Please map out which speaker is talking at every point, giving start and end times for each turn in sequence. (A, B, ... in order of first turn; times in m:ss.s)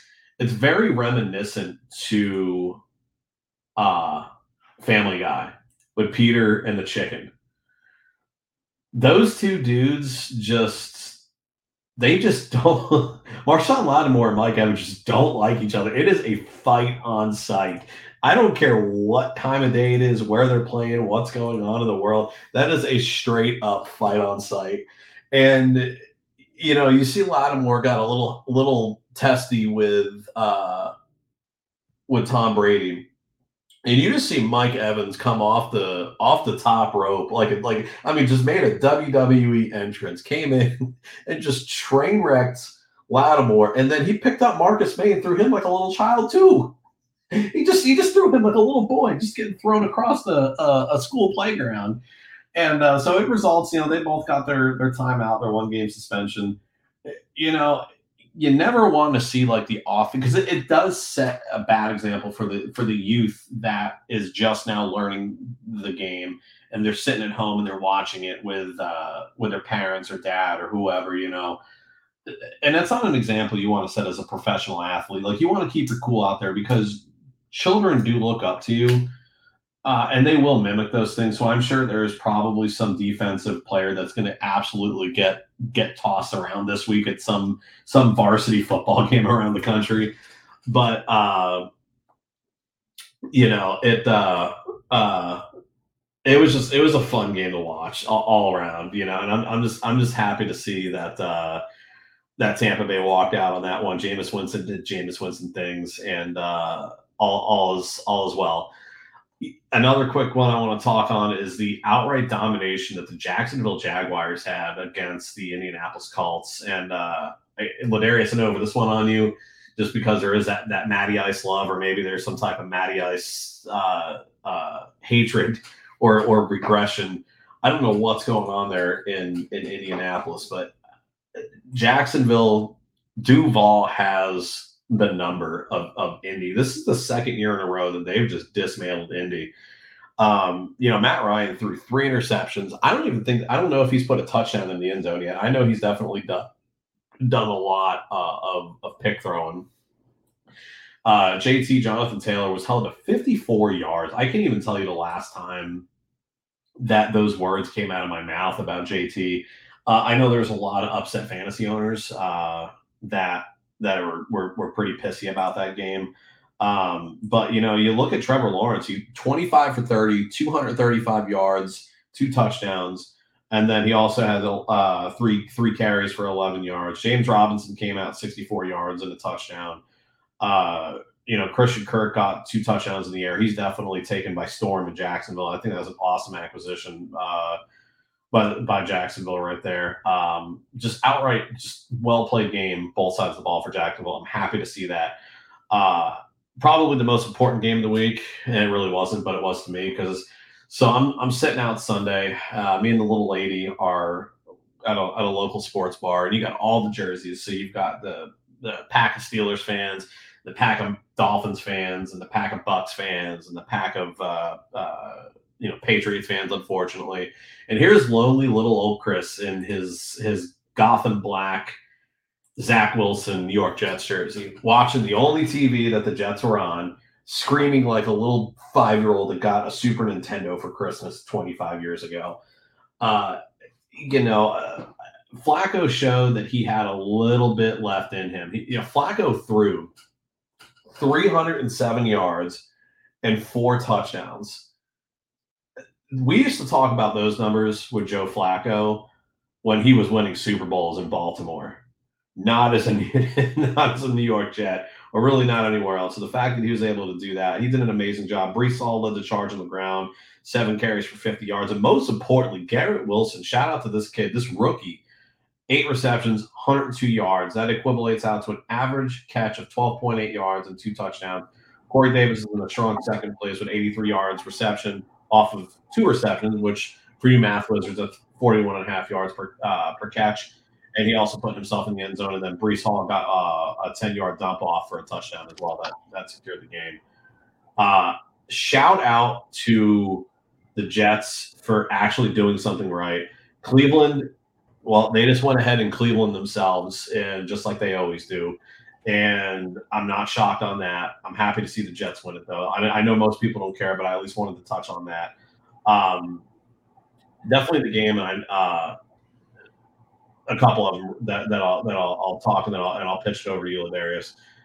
0:00.4-0:02.8 A
0:03.8-0:04.3 A
0:04.8-0:07.3 A
0:08.9-0:11.2 A
0:12.0-0:26.0 A
0:26.5-0:30.9 A
0:32.1-0:33.1 A
0:33.8-0:46.8 A
0:47.3-0:52.0 A
0:52.5-1:11.6 A
1:12.2-1:19.1 A
1:19.8-1:30.1 A
1:30.7-1:31.7 A
1:33.3-1:35.4 A
1:36.2-1:41.6 A
1:42.4-1:48.7 A
1:49.4-2:10.7 A
2:11.4-2:19.5 A
2:20.2-2:26.5 A
2:27.2-2:29.7 A
2:31.0-2:35.8 A
2:36.8-2:59.8 A
3:00.4-3:07.6 A
3:08.3-3:15.2 A
3:15.7-3:41.8 A
3:42.6-3:52.4 A
3:53.0-3:53.4 A
3:53.9-3:59.9 A
4:00.9-4:02.6 A
4:03.2-4:04.7 A
4:06.1-4:09.1 A
4:09.6-4:11.8 A
4:12.4-4:25.0 A
4:25.7-4:47.0 A
4:47.8-4:54.3 A
4:54.8-5:05.3 A
5:05.8-5:06.4 A
5:07.4-5:08.9 A
5:10.5-5:14.4 A